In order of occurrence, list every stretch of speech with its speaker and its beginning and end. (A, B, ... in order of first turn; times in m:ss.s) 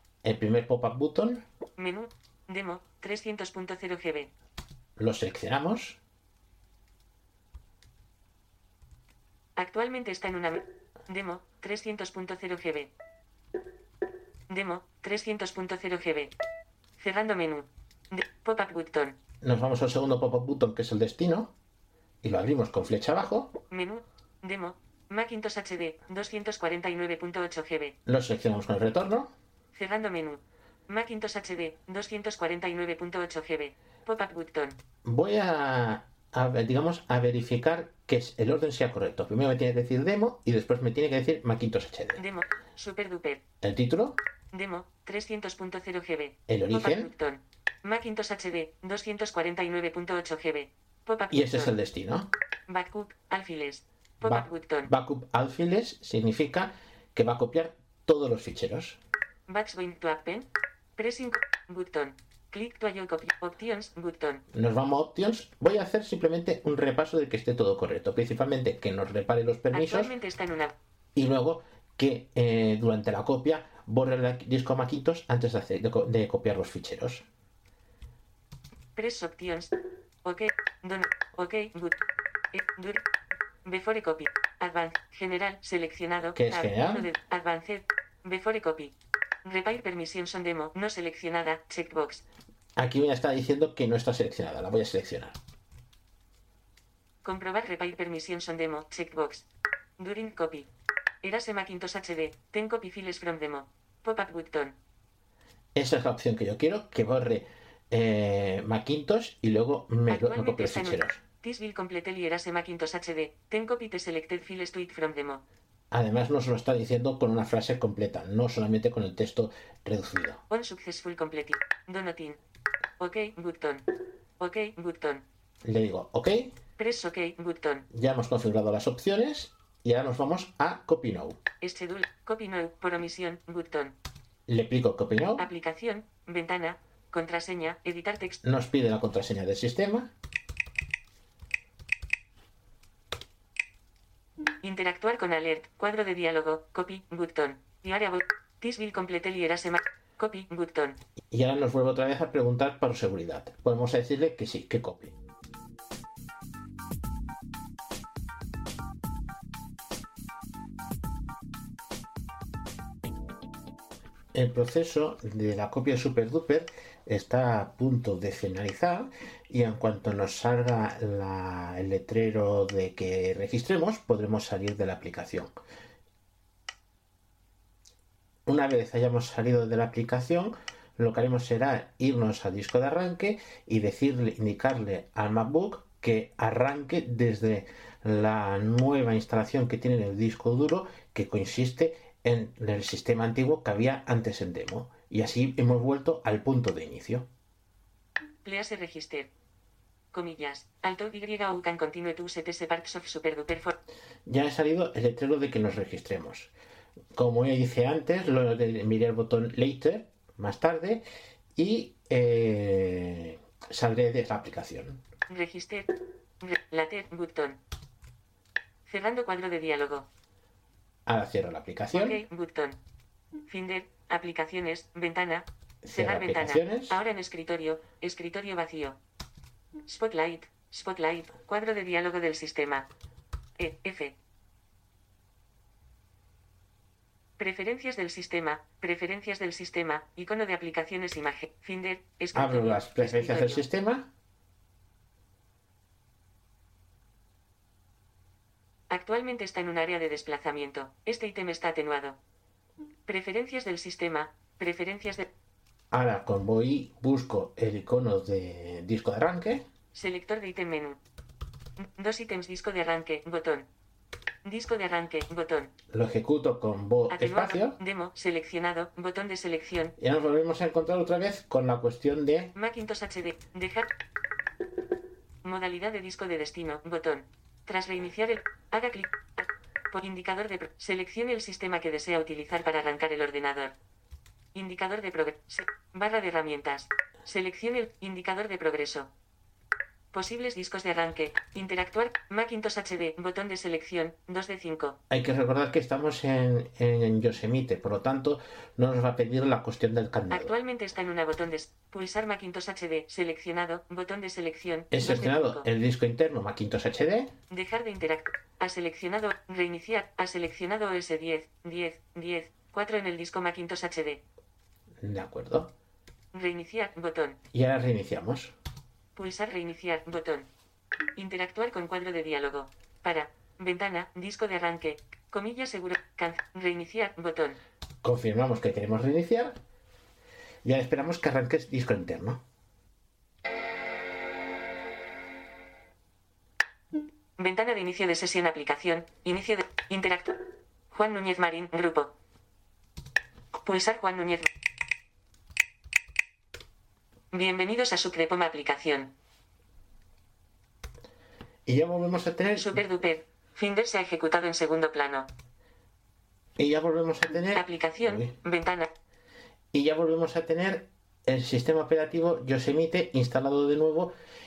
0:00.2-0:01.4 A
0:01.8-0:04.3 B
0:05.0-0:06.0 A
0:09.6-0:12.9 B
0:14.5-0:16.3 B
0:17.0-0:19.2 B
0:19.4-0:21.5 A
0:22.2-0:23.5 A
0:23.7-0:28.0 B
0:28.0-0:29.3 A
0:29.7-0:34.8 B
0:35.0-0:42.2 A
0:42.2-0:43.4 B
0:43.6-0:44.2 A
0:44.5-0:51.8 B
0:46.5-0:47.1 A
0:51.3-0:52.3 A
0:52.7-0:54.9 B
0:54.2-0:59.0 A
0:59.5-1:04.4 B
1:04.5-1:10.1 A
1:09.7-1:10.7 B
1:11.2-1:17.2 A
1:18.9-1:22.0 B
1:22.5-1:23.0 B
1:23.6-1:32.2 B
1:26.3-1:27.1 A
1:32.8-1:35.4 A
1:37.2-1:39.4 B
1:40.0-1:40.7 B
1:41.2-1:44.8 B
1:45.7-1:51.2 A
1:50.1-1:55.4 B
1:55.9-2:00.4 A
2:00.5-2:02.4 B
2:03.0-2:03.9 B
2:04.4-2:05.2 B
2:05.6-2:06.5 A
2:06.8-2:07.9 B
2:07.9-2:11.4 A
2:11.6-2:14.0 B
2:14.5-2:15.5 A
2:15.3-2:18.4 B
2:18.4-2:20.1 A
2:24.6-2:31.0 B
2:31.3-2:35.1 A
2:44.3-2:55.5 A
2:58.4-3:17.3 A
3:18.4-3:19.3 B
3:20.1-3:23.7 B
3:24.2-3:26.5 A
3:27.1-3:31.0 A
3:31.6-3:35.0 A
3:35.3-3:37.6 B
3:38.8-3:40.1 B
3:41.0-3:42.2 A
3:41.9-3:42.8 B
3:43.4-3:49.0 B
3:45.8-3:47.0 A
3:49.8-3:52.9 B
3:53.6-3:54.2 B
3:57.4-4:03.6 B
4:02.3-4:04.1 A
4:08.9-4:12.2 B
4:13.0-4:15.3 B
4:15.9-4:19.6 A
4:19.9-4:21.0 B
4:21.8-4:23.7 B
4:24.4-4:25.7 B
4:25.9-4:27.8 A
4:27.1-4:30.0 B
4:30.0-4:32.5 A
4:32.5-4:33.9 B
4:35.4-4:43.7 B
4:44.5-4:49.1 B
4:50.1-4:55.0 B
4:55.1-5:00.5 A
5:00.3-5:05.7 B
5:04.9-5:07.3 A
5:07.5-5:14.2 B
5:15.0-5:15.7 A
5:16.3-5:17.4 B
5:17.5-5:18.5 A
5:19.1-5:20.5 B
5:21.1-5:27.6 B
5:28.0-5:29.6 A
5:30.6-5:32.4 A
5:37.4-5:42.1 B
5:43.5-5:44.5 B
5:47.3-5:49.1 B
5:51.6-5:52.8 A
5:52.6-5:55.3 B
5:56.6-5:58.3 A
5:57.5-5:58.9 B
5:59.7-6:04.1 A